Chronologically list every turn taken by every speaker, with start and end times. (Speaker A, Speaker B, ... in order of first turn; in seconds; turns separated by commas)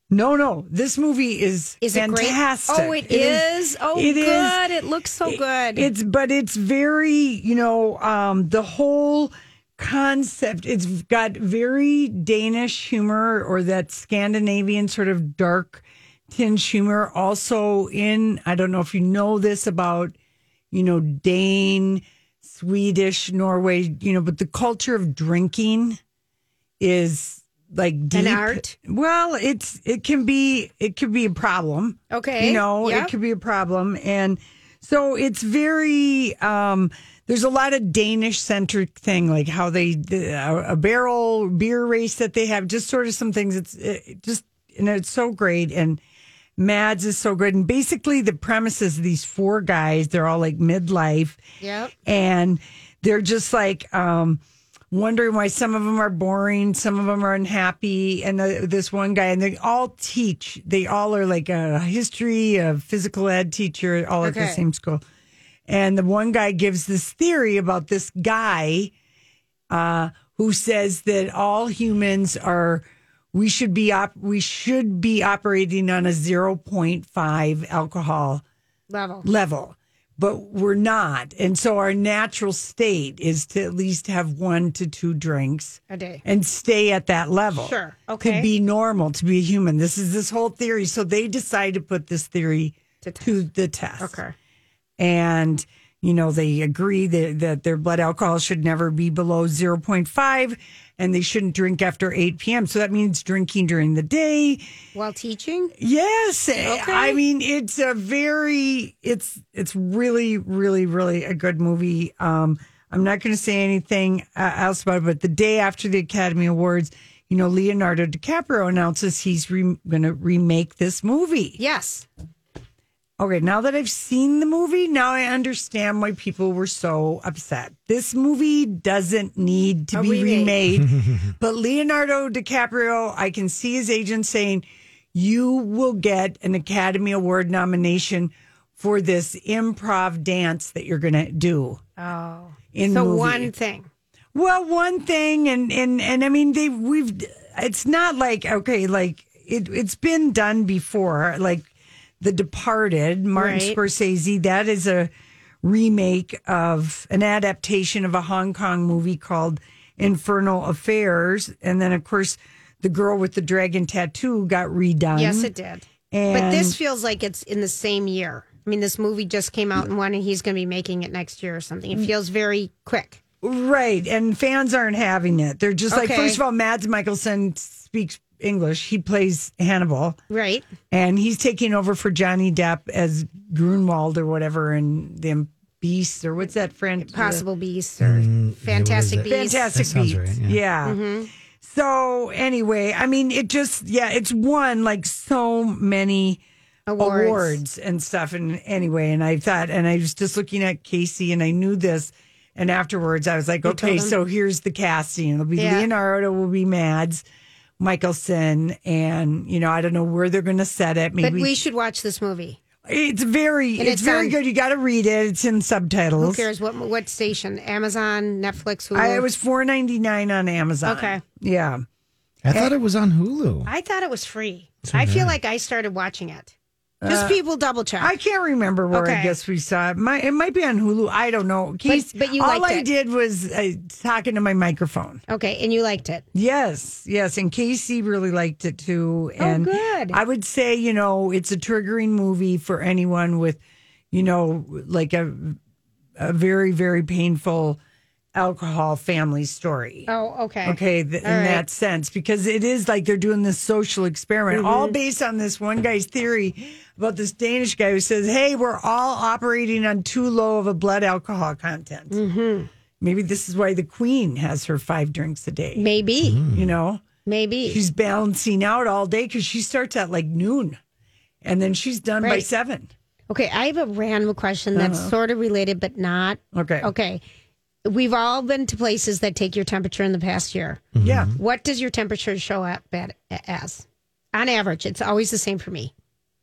Speaker A: 0.1-4.6, Speaker B: 1.8-5.9, Speaker A: 5.2-20.1, Speaker A: 20.7-26.0, Speaker A: 26.8-46.0, Speaker B: 28.1-28.7, Speaker B: 32.1-33.1, Speaker A: 46.6-51.4, Speaker B: 51.6-51.9, Speaker A: 52.1-54.4, Speaker A: 54.9-65.0, Speaker B: 64.2-64.6, Speaker A: 65.7-68.9, Speaker A: 69.7-78.4, Speaker B: 78.9-79.3, Speaker A: 79.2-94.2, Speaker B: 85.9-86.2, Speaker B: 87.6-88.5, Speaker B: 93.0-93.3, Speaker B: 94.0-94.3, Speaker A: 95.0-104.6, Speaker B: 104.9-105.7, Speaker A: 105.8-121.6, Speaker B: 106.7-107.2, Speaker B: 121.6-122.1, Speaker A: 123.2-141.8, Speaker B: 129.9-130.6, Speaker C: 130.8-131.3, Speaker B: 142.0-143.9, Speaker A: 142.7-143.5, Speaker A: 144.3-151.7, Speaker A: 152.2-155.1, Speaker B: 153.4-153.8, Speaker A: 155.6-165.5, Speaker B: 165.2-173.2, Speaker A: 166.1-166.8, Speaker A: 173.4-180.2, Speaker B: 175.9-176.4, Speaker B: 180.3-180.7, Speaker A: 180.9-187.4, Speaker B: 187.0-189.7, Speaker C: 188.0-190.6, Speaker A: 189.3-191.0, Speaker B: 190.9-191.3, Speaker A: 191.6-196.4, Speaker B: 196.9-197.6, Speaker A: 197.0-207.2, Speaker B: 203.7-204.2, Speaker B: 205.6-205.9, Speaker A: 207.8-211.5, Speaker B: 211.2-212.6, Speaker A: 212.9-216.5, Speaker B: 213.8-214.4, Speaker B: 216.2-219.3, Speaker A: 218.9-221.8, Speaker B: 220.8-221.2, Speaker C: 222.4-223.7, Speaker B: 223.7-226.5, Speaker C: 224.8-225.3, Speaker A: 227.0-227.4, Speaker B: 227.1-228.1, Speaker A: 228.0-235.2, Speaker B: 228.9-229.3, Speaker B: 231.8-232.9, Speaker B: 235.3-236.2, Speaker A: 236.3-243.6, Speaker B: 239.4-240.2, Speaker A: 244.1-245.6, Speaker A: 246.2-247.8, Speaker A: 248.3-250.1, Speaker B: 250.1-251.6, Speaker A: 250.7-262.2, Speaker B: 254.5-254.9, Speaker B: 262.1-262.7, Speaker A: 263.0-265.9, Speaker B: 265.8-266.4, Speaker C: 266.2-266.7, Speaker A: 266.5-267.0, Speaker B: 267.3-267.8, Speaker A: 267.7-270.8, Speaker A: 271.4-272.9, Speaker B: 273.3-277.2, Speaker A: 274.8-275.1, Speaker A: 276.5-276.9, Speaker B: 277.9-280.8, Speaker C: 281.0-281.4, Speaker A: 281.0-281.4, Speaker B: 281.4-285.9